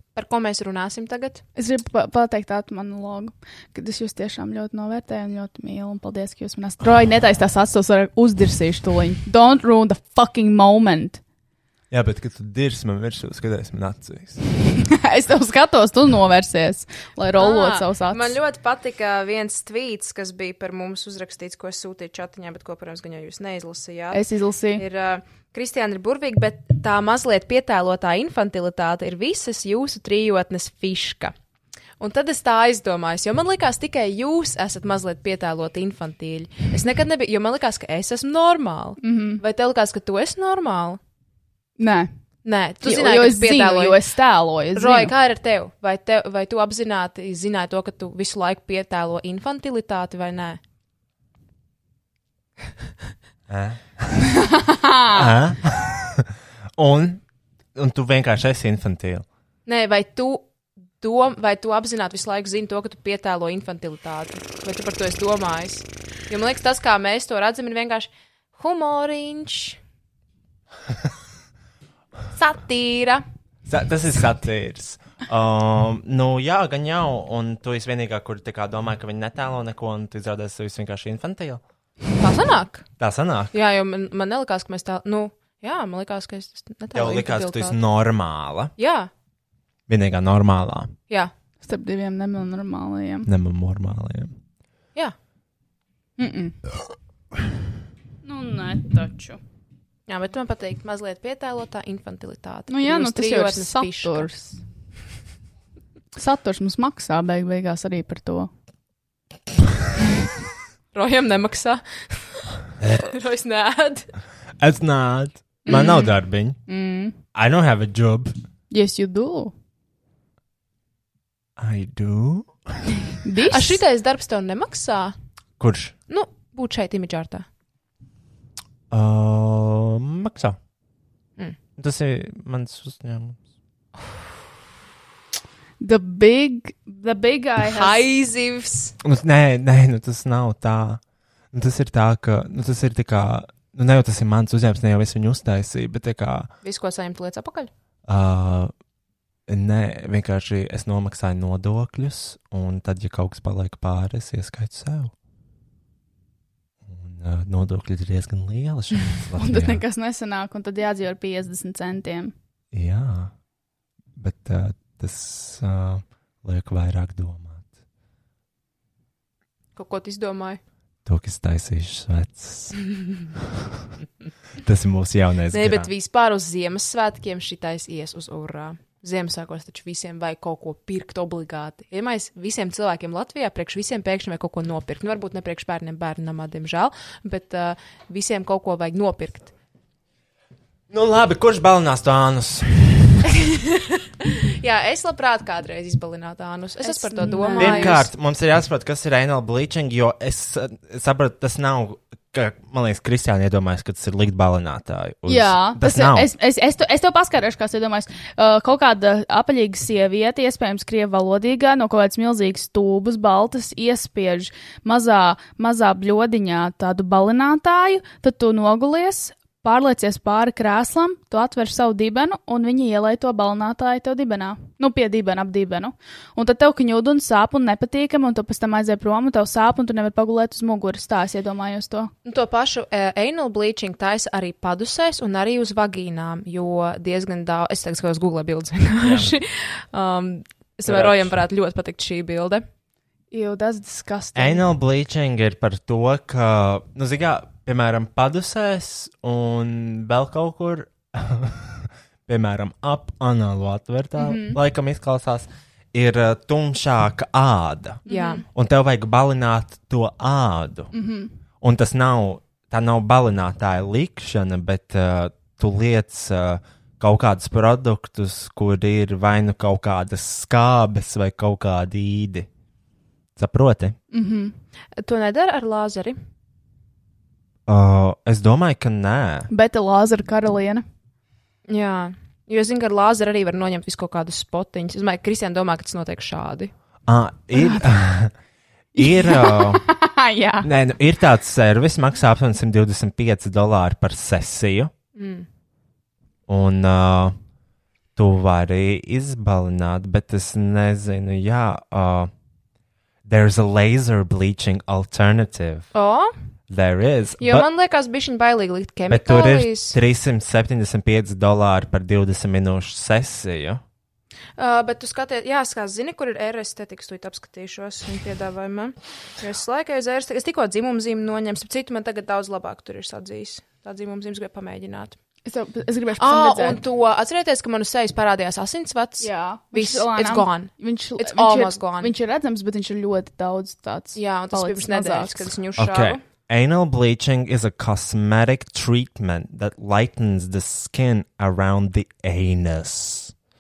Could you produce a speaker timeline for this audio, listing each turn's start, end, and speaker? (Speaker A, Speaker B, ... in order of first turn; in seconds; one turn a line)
Speaker A: 0.1-1.4
Speaker B: 1.6-11.2
Speaker C: 11.9-14.4
Speaker B: 14.8-18.4
Speaker A: 17.4-24.2
Speaker B: 24.1-24.8
Speaker A: 24.8-31.3
Speaker A: 32.0-41.0
Speaker B: 39.0-39.4
Speaker B: 41.8-42.1
Speaker A: 42.4-44.0
Speaker B: 42.8-45.1
Speaker A: 44.8-50.6
Speaker C: 53.5-54.3
Speaker B: 54.3-55.3
Speaker C: 55.1-57.2
Speaker C: 57.8-59.3
Speaker A: 59.7-60.5
Speaker A: 61.0-69.8
Speaker A: 72.3-73.2
Speaker C: 73.7-81.6
Speaker A: 82.2-82.9
Speaker C: 83.0-83.5
Speaker A: 83.5-87.8
Speaker C: 86.9-88.7
Speaker A: 88.8-89.1
Speaker C: 89.9-90.9
Speaker B: 91.6-93.3
Speaker C: 93.3-94.3
Speaker B: 96.2-96.6
Speaker B: 98.2-99.4
Speaker A: 100.1-104.3
Speaker B: 102.7-104.6
Speaker B: 106.2-108.5
Speaker A: 110.9-114.1
Speaker C: 112.8-113.1
Speaker C: 114.6-116.6
Speaker A: 115.7-116.0
Speaker B: 116.7-117.2
Speaker C: 117.3-118.3
Speaker B: 118.7-119.5
Speaker C: 121.6-122.8
Speaker B: 123.2-123.8
Speaker A: 123.5-125.2
Speaker C: 125.6-126.0
Speaker A: 126.1-127.5
Speaker C: 128.9-130.6
Speaker C: 131.8-133.4
Speaker B: 135.8-138.0
Speaker A: 137.7-138.9
Speaker C: 139.0-141.0
Speaker C: 141.5-146.5
Speaker A: 146.6-147.7
Speaker C: 148.1-148.7
Speaker C: 149.5-155.1
Speaker C: 156.8-159.8
Speaker B: 159.4-162.3
Speaker C: 162.7-163.3
Speaker C: 164.2-167.7
Speaker A: 169.8-170.6
Speaker C: 171.1-172.8
Speaker C: 173.3-173.9
Speaker C: 174.6-175.9
Speaker A: 175.5-189.5
Speaker C: 190.9-193.3
Speaker A: 193.3-198.1
Speaker B: 196.8-198.0
Speaker C: 197.5-206.3
Speaker B: 205.3-232.1
Speaker A: 232.2-242.6
Speaker C: 239.0-239.3
Speaker C: 240.8-241.4
Speaker B: 243.3-244.7
Speaker C: 244.4-260.9
Speaker B: 254.2-254.6
Speaker B: 258.1-258.4
Speaker A: 258.1-258.4
Speaker B: 260.9-261.4
Speaker C: 261.6-272.5
Speaker C: 273.4-274.0
Speaker B: 274.1-274.5
Speaker A: 275.0-276.2
Speaker C: 277.7-279.5
Speaker B: 279.5-280.8
Speaker A: 281.7-286.7
Speaker C: 287.1-288.3
Speaker B: 287.5-287.9
Speaker C: 288.9-289.8
Speaker B: 289.0-290.7
Speaker C: 290.6-294.9
Speaker A: 295.1-295.5
Speaker C: 296.5-297.4
Speaker C: 298.2-302.3
Speaker C: 303.3-305.9
Speaker A: 305.9-306.3
Speaker C: 306.7-307.7
Speaker A: 307.4-310.0
Speaker C: 309.1-313.8
Speaker A: 314.6-325.2
Speaker B: 325.5-326.8
Speaker A: 326.2-332.1
Speaker B: 329.2-335.4
Speaker A: 334.1-336.2
Speaker C: 335.8-343.3